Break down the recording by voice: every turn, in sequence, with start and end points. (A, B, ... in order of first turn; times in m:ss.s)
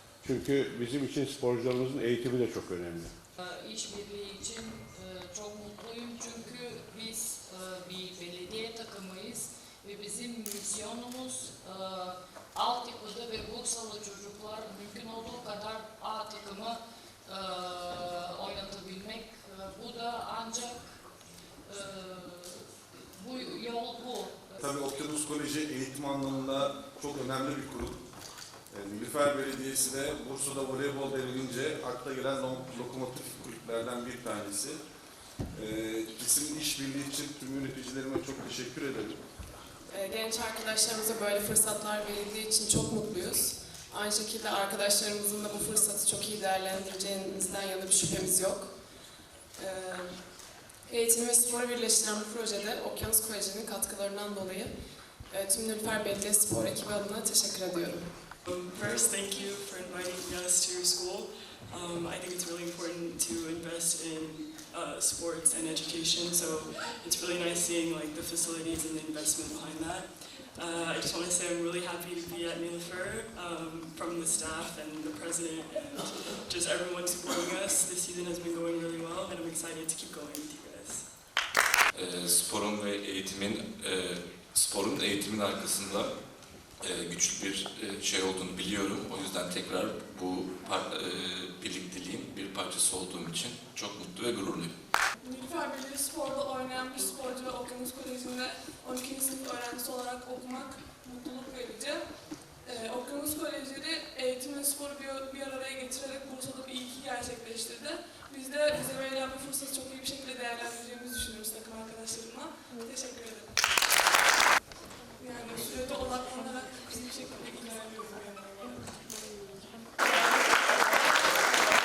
0:00.2-0:03.1 A
0:03.4-0:20.8 B
0:21.6-0:24.6 B
0:24.6-0:28.0 C
0:28.7-0:34.8 C
0:35.5-0:39.2 C
0:39.9-0:48.7 D
0:49.6-0:50.1 D
0:50.9-0:54.7 D
0:55.3-0:58.0 D
0:58.4-1:21.1 E
1:21.9-1:26.1 F
1:26.8-1:34.7 F
1:35.2-1:53.5 G
1:55.2-1:58.8 G